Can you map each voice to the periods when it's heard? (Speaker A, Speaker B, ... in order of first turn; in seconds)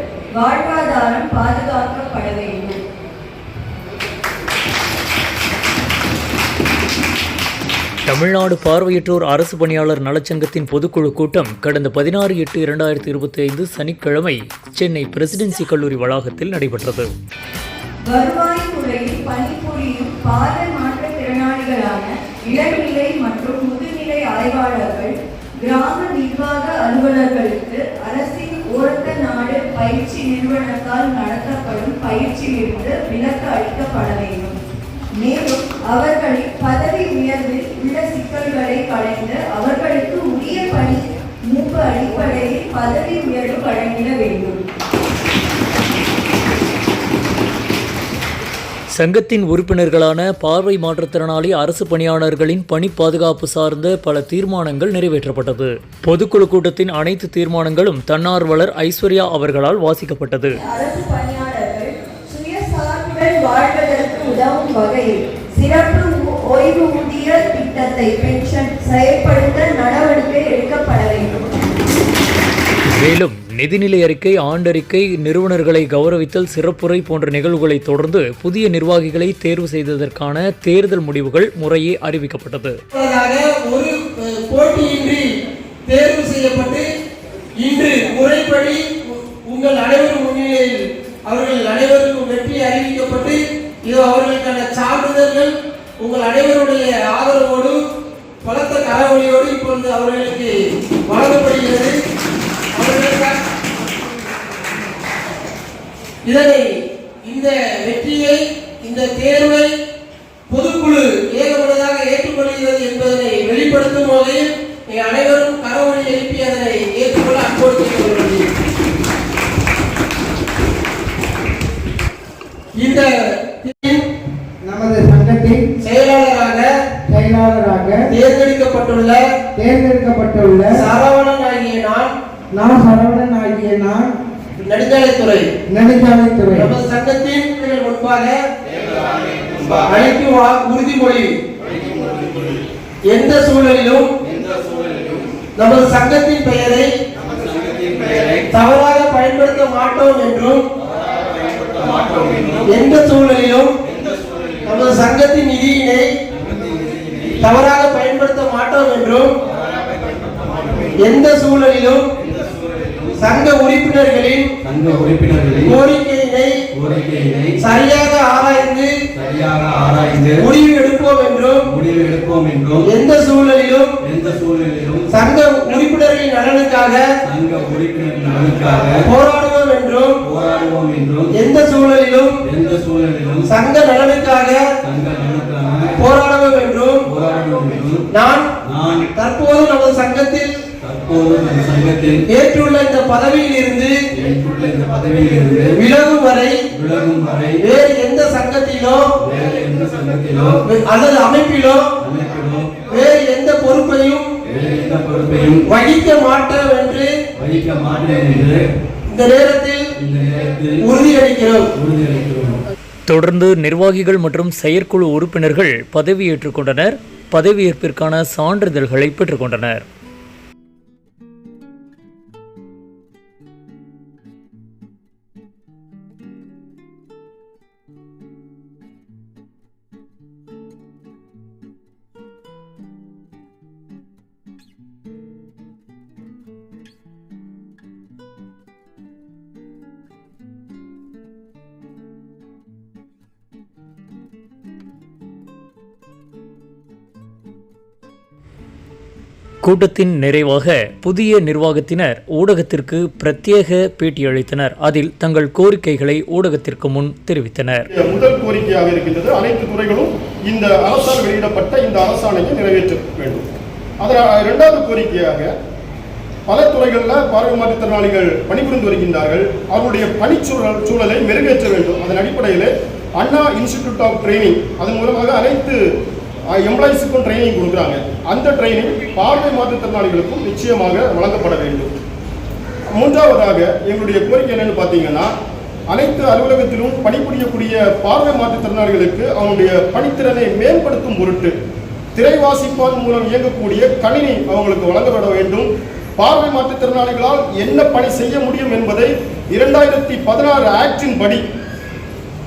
Speaker A: 0.4-2.8, 18.1-34.6, 35.2-44.6, 60.6-71.5
Speaker B: 8.1-17.1, 49.0-60.6, 72.9-82.8, 213.1-219.8, 249.6-257.9
Speaker C: 82.9-85.2, 85.9-86.8, 87.6-97.8, 98.4-100.5, 101.1-102.0, 102.8-103.4, 106.2-106.7, 107.2-109.7, 110.5-118.5, 122.8-123.1, 123.6-124.0, 125.8-126.7, 128.1-129.2, 130.7-132.1, 134.6-135.5, 136.5-138.4, 139.8-141.3, 143.1-144.1, 145.6-146.9, 148.5-150.7, 152.7-153.8, 154.7-156.1, 157.4-159.4, 161.0-162.1, 163.2-164.5, 165.6-166.6, 167.6-169.0, 170.4-171.7, 172.8-174.0, 175.1-177.1, 179.0-180.2, 181.3-182.4, 183.5-184.7, 186.0-187.1, 188.1-188.5, 189.1-190.5, 192.3-194.0, 195.7-196.6, 197.6-199.1, 200.6-201.9, 202.9-204.3, 205.7-207.1, 209.1-209.9, 210.8-211.7
Speaker D: 124.7-125.7, 127.1-128.0, 129.6-130.7, 132.5-134.0, 135.7-136.7
Speaker E: 152.1-152.6, 164.6-165.7, 166.8-167.6, 169.2-170.4, 171.8-172.9, 174.1-175.1, 177.3-179.0, 180.3-181.3, 182.5-183.5, 184.9-185.9, 187.2-188.0, 188.7-189.0, 190.8-192.2, 194.2-195.7, 196.8-197.6, 199.3-200.6, 202.0-202.7, 204.5-205.6, 207.4-208.7, 210.0-210.8, 211.8-212.6
Speaker F: 257.9-263.4, 264.0-265.5, 266.5-275.8, 276.6-281.9, 282.9-285.3, 285.9-291.5, 292.1-301.4